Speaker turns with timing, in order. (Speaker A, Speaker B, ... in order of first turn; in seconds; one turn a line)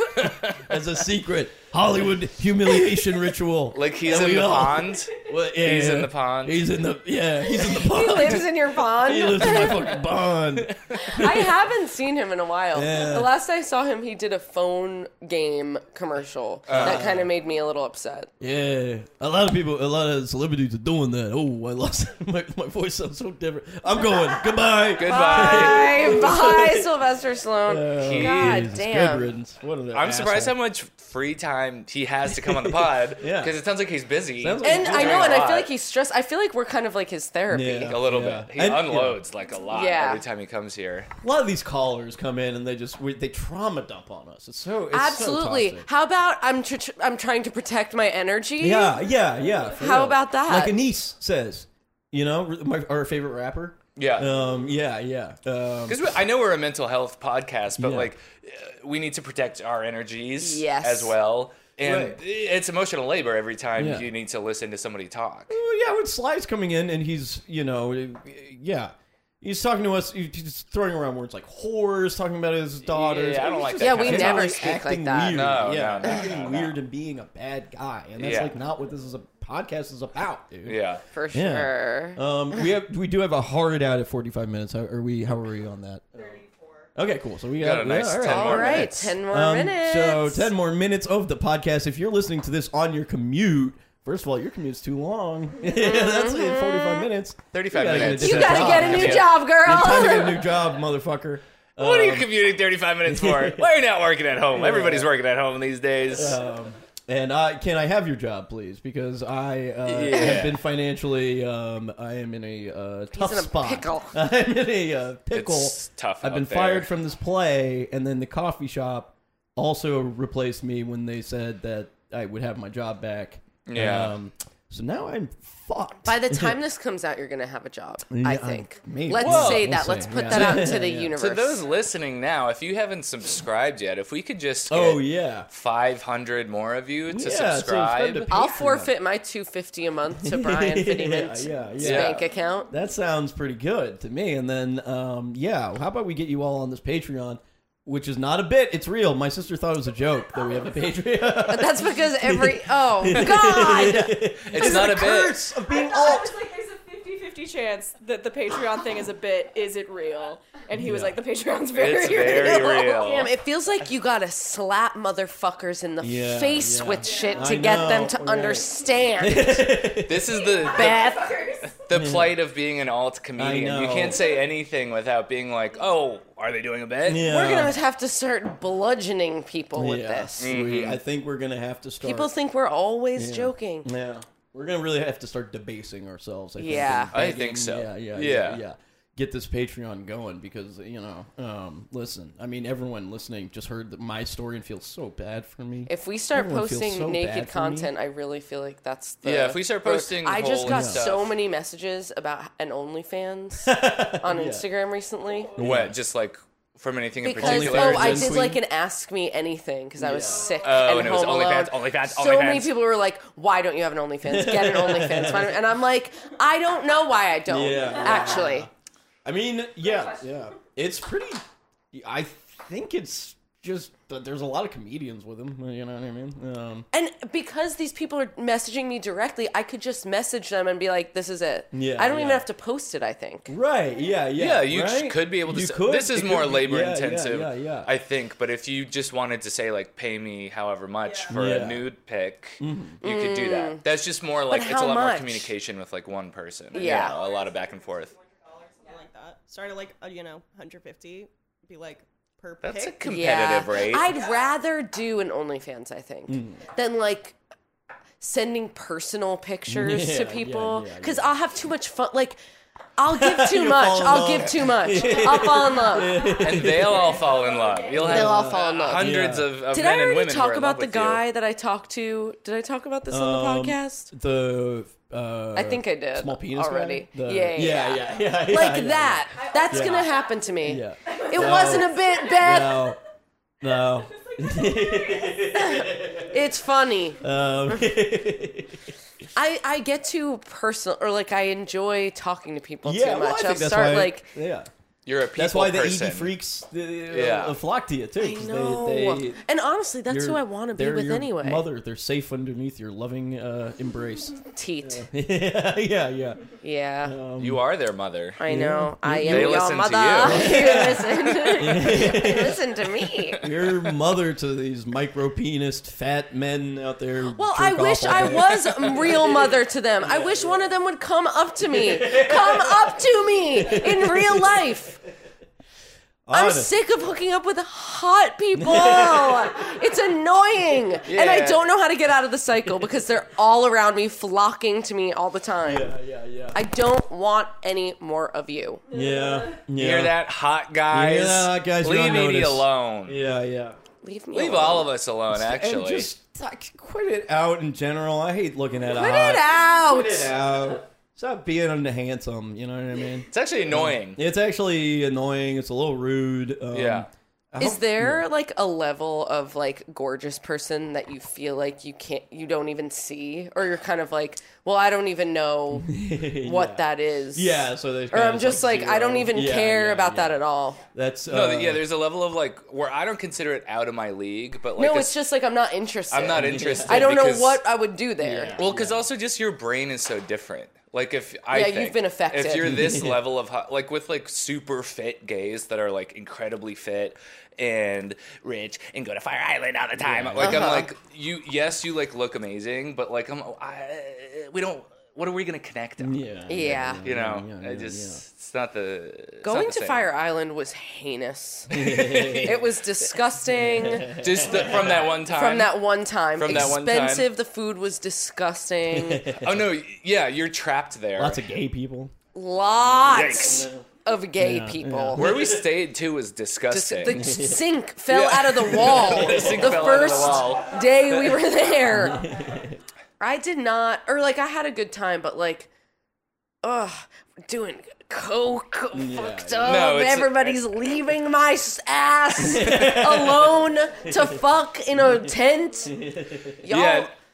Speaker A: 0.1-0.6
Speaker B: 0.5-11.5
Speaker A: 3.7-6.7
Speaker C: 7.5-10.0
Speaker A: 10.6-10.9
Speaker C: 10.9-18.3
Speaker B: 12.7-13.3
Speaker A: 16.7-17.0
Speaker B: 16.7-17.3
Speaker B: 18.4-26.9
Speaker A: 25.0-26.2
Speaker C: 25.0-29.3
Speaker B: 27.7-30.6
Speaker A: 28.0-28.6
Speaker A: 29.9-35.7
Speaker B: 32.3-33.5
Speaker B: 34.4-35.5
Speaker C: 34.6-38.0
Speaker B: 37.5-39.2
Speaker A: 37.9-41.1
Speaker C: 39.7-40.2
Speaker B: 41.2-45.9
Speaker C: 44.9-49.0
Speaker B: 48.6-56.1
Speaker C: 49.8-50.8
Speaker A: 54.0-54.3
Speaker A: 55.9-65.6
Speaker B: 57.8-58.1
Speaker C: 60.4-61.1
Speaker B: 61.8-62.2
Speaker B: 63.8-64.1
Speaker B: 65.5-80.8
Speaker A: 72.9-74.5
Speaker C: 73.8-75.5
Speaker A: 75.3-76.8
Speaker A: 78.2-78.5
Speaker A: 80.7-81.0
Speaker C: 81.1-82.2
Speaker B: 81.3-86.4
Speaker D: 86.2-86.9
Speaker B: 87.0-102.3
Speaker A: 87.6-88.9
Speaker C: 88.2-90.5
Speaker C: 95.6-97.1
Speaker A: 97.5-99.4
Speaker C: 97.9-100.5
Speaker A: 101.8-106.4
Speaker B: 103.0-103.7
Speaker B: 104.5-105.1
Speaker B: 106.1-126.6
Speaker A: 109.9-110.6
Speaker C: 113.1-114.2
Speaker A: 115.3-116.9
Speaker A: 123.7-124.2
Speaker C: 126.0-131.6
Speaker B: 128.1-131.1
Speaker A: 129.1-129.7
Speaker A: 130.3-130.6
Speaker A: 131.2-138.3
Speaker B: 134.7-135.5
Speaker B: 137.1-138.9
Speaker C: 138.3-142.7
Speaker B: 140.2-156.4
Speaker A: 141.8-142.2
Speaker C: 151.4-154.6
Speaker A: 154.5-155.4
Speaker E: 155.6-162.9
Speaker B: 160.8-161.2
Speaker A: 161.7-163.3
Speaker C: 162.2-169.9
Speaker B: 166.0-170.4
Speaker E: 167.1-167.4
Speaker A: 170.0-177.3
Speaker E: 170.3-171.8
Speaker C: 170.8-171.2
Speaker B: 171.9-172.4
Speaker B: 173.4-174.2
Speaker B: 177.1-177.8
Speaker C: 177.2-180.5
Speaker B: 179.8-182.3
Speaker A: 180.4-181.0
Speaker C: 182.0-183.9
Speaker B: 183.2-197.9
Speaker C: 186.6-187.1
Speaker A: 187.1-188.6
Speaker C: 195.9-205.6
Speaker A: 199.2-201.4
Speaker B: 200.6-201.1
Speaker B: 203.6-204.7
Speaker B: 205.6-206.0
Speaker A: 205.6-208.4
Speaker C: 207.2-218.7
Speaker B: 207.4-208.6
Speaker B: 210.0-210.6
Speaker A: 210.6-212.8
Speaker B: 214.2-215.6
Speaker B: 217.5-218.7
Speaker B: 219.2-221.4
Speaker E: 220.0-220.2
Speaker B: 221.9-226.9
Speaker C: 226.9-233.5
Speaker B: 231.7-232.5
Speaker B: 233.5-237.9
Speaker A: 234.4-248.1
Speaker B: 241.3-241.9
Speaker B: 242.6-243.0
Speaker C: 243.0-243.8
Speaker C: 244.5-245.5
Speaker C: 246.7-247.2
Speaker E: 246.8-248.9
Speaker D: 246.9-247.6
Speaker D: 248.1-253.2
Speaker A: 252.6-254.2
Speaker C: 253.0-257.4
Speaker B: 256.3-256.6
Speaker C: 258.2-262.4
Speaker B: 259.7-261.3
Speaker C: 263.0-266.2
Speaker B: 263.1-267.3
Speaker E: 265.0-268.2
Speaker A: 266.4-271.2
Speaker B: 267.9-269.5
Speaker C: 268.0-269.1
Speaker C: 269.7-274.1
Speaker B: 273.1-280.1
Speaker C: 275.6-282.8
Speaker E: 279.3-282.6
Speaker B: 280.6-283.0
Speaker B: 283.6-286.4
Speaker E: 283.6-286.2
Speaker C: 285.5-287.9
Speaker B: 287.2-288.9
Speaker C: 289.4-294.3
Speaker B: 292.8-294.7
Speaker A: 295.1-296.4
Speaker B: 295.4-299.4
Speaker A: 297.1-297.6
Speaker C: 298.2-301.7
Speaker B: 300.1-306.4
Speaker C: 304.5-305.1
Speaker C: 306.6-307.2
Speaker B: 307.0-307.6
Speaker A: 307.4-308.4
Speaker C: 308.4-313.4
Speaker B: 308.5-312.6
Speaker A: 309.2-310.8
Speaker B: 313.4-320.6
Speaker C: 317.3-325.0
Speaker B: 321.7-322.9
Speaker B: 323.5-324.7
Speaker B: 326.3-326.7
Speaker C: 326.3-335.9
Speaker B: 328.6-329.6
Speaker A: 331.1-331.6
Speaker B: 335.6-336.6
Speaker C: 336.5-338.8
Speaker B: 338.9-340.2
Speaker A: 339.8-343.2
Speaker B: 340.9-343.8
Speaker C: 344.0-344.9
Speaker A: 344.3-346.1
Speaker B: 345.3-358.3
Speaker C: 348.9-350.3
Speaker A: 353.3-354.2
Speaker A: 356.7-357.1
Speaker C: 357.6-370.8
Speaker B: 365.7-371.9
Speaker A: 371.3-375.2
Speaker C: 374.8-378.6
Speaker A: 376.1-377.6
Speaker B: 376.3-377.2
Speaker B: 378.2-379.1
Speaker A: 378.6-396.2
Speaker C: 381.5-382.8
Speaker B: 382.6-383.2
Speaker B: 390.0-390.8
Speaker C: 390.4-390.9
Speaker B: 396.0-398.2
Speaker C: 396.5-397.0
Speaker A: 397.0-400.1
Speaker C: 399.4-404.2
Speaker B: 401.7-402.7
Speaker B: 403.5-405.2
Speaker A: 404.2-405.8
Speaker C: 405.3-409.3
Speaker A: 406.4-407.3
Speaker B: 408.9-409.7
Speaker A: 409.4-411.4
Speaker B: 411.2-412.1
Speaker C: 412.3-415.3
Speaker B: 413.0-413.9
Speaker A: 413.1-413.6
Speaker B: 414.4-415.7
Speaker A: 415.1-417.3
Speaker C: 416.7-422.2
Speaker B: 417.1-417.7
Speaker A: 418.1-420.7
Speaker B: 418.7-420.5
Speaker B: 421.8-422.8
Speaker C: 423.2-425.7
Speaker C: 426.6-435.9
Speaker B: 428.9-429.9
Speaker A: 429.6-430.6
Speaker B: 432.4-434.4
Speaker B: 434.9-435.3
Speaker B: 435.9-436.6
Speaker C: 436.6-437.1
Speaker A: 436.7-437.1